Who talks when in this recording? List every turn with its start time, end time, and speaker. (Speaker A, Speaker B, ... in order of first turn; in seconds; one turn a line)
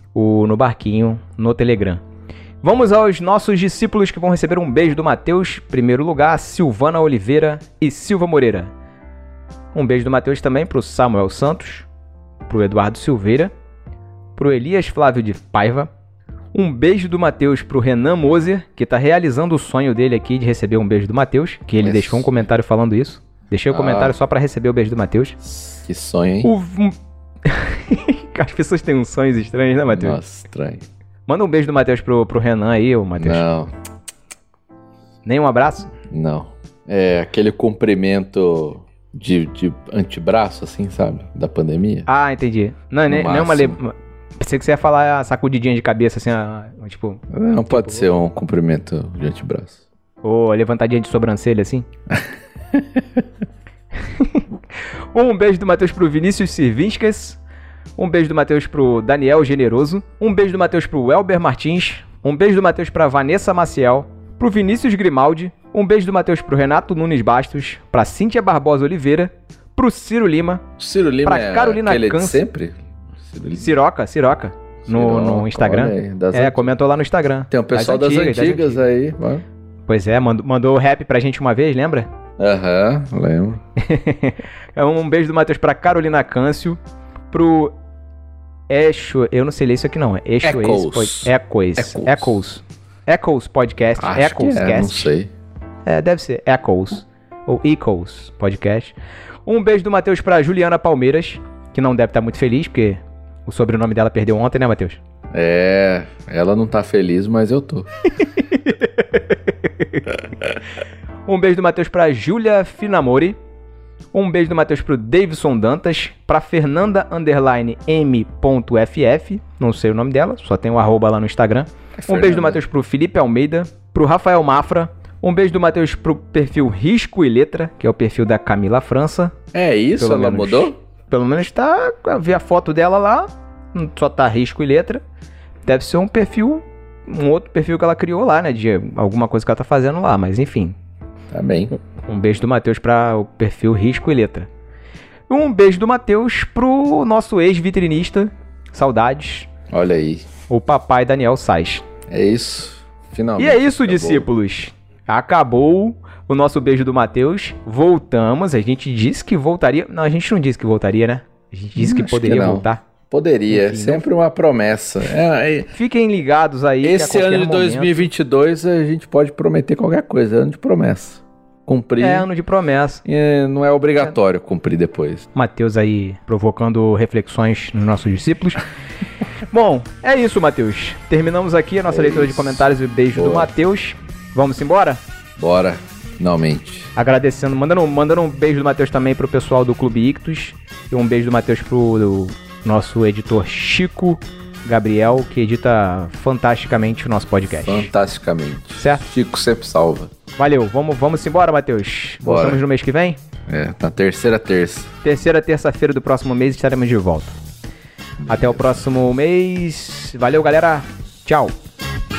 Speaker A: 0.1-2.0
Speaker A: 2.6-8.7
Speaker A: 9.7-11.9
Speaker A: 12.5-13.5
Speaker A: 14.4-15.9
Speaker A: 16.5-25.4
Speaker B: 21.8-22.4
Speaker B: 23.7-24.2
Speaker B: 25.4-26.5
Speaker A: 26.4-30.2
Speaker B: 29.9-30.9
Speaker A: 31.3-33.4
Speaker B: 33.2-33.7
Speaker A: 35.2-35.9
Speaker B: 36.1-42.1
Speaker A: 42.1-48.1
Speaker B: 43.1-43.8
Speaker B: 47.3-49.8
Speaker A: 50.2-51.9
Speaker B: 52.1-53.2
Speaker A: 54.1-54.4
Speaker A: 55.1-57.4
Speaker A: 58.0-70.6
Speaker B: 70.8-73.8
Speaker A: 71.2-72.4
Speaker A: 73.6-78.8
Speaker B: 74.8-76.7
Speaker B: 77.5-79.5
Speaker A: 79.9-82.1
Speaker B: 82.4-83.6
Speaker A: 83.8-86.8
Speaker A: 87.3-87.7
Speaker A: 88.7-95.1
Speaker B: 90.4-92.4
Speaker B: 94.0-95.3
Speaker A: 95.8-99.0
Speaker A: 99.5-105.0
Speaker B: 105.3-107.9
Speaker A: 108.7-109.2
Speaker A: 111.3-113.4
Speaker A: 114.1-129.3
Speaker B: 122.0-122.6
Speaker B: 129.5-130.8
Speaker A: 130.0-135.0
Speaker A: 135.7-140.8
Speaker B: 141.3-141.7
Speaker A: 141.8-144.5
Speaker A: 145.3-149.5
Speaker B: 149.7-150.3
Speaker A: 150.5-151.8
Speaker B: 152.1-154.3
Speaker A: 153.4-162.8
Speaker B: 161.8-165.7
Speaker A: 163.5-164.0
Speaker A: 165.8-168.0
Speaker B: 166.8-172.3
Speaker A: 172.0-173.0
Speaker B: 173.1-175.2
Speaker A: 175.3-178.6
Speaker A: 179.5-185.0
Speaker B: 181.9-183.5
Speaker B: 185.4-186.9
Speaker A: 186.9-197.9
Speaker B: 197.6-200.1
Speaker A: 198.8-199.1
Speaker A: 200.4-203.2
Speaker B: 202.2-202.6
Speaker B: 203.5-204.9
Speaker A: 205.0-207.4
Speaker B: 208.2-208.8
Speaker A: 208.3-211.5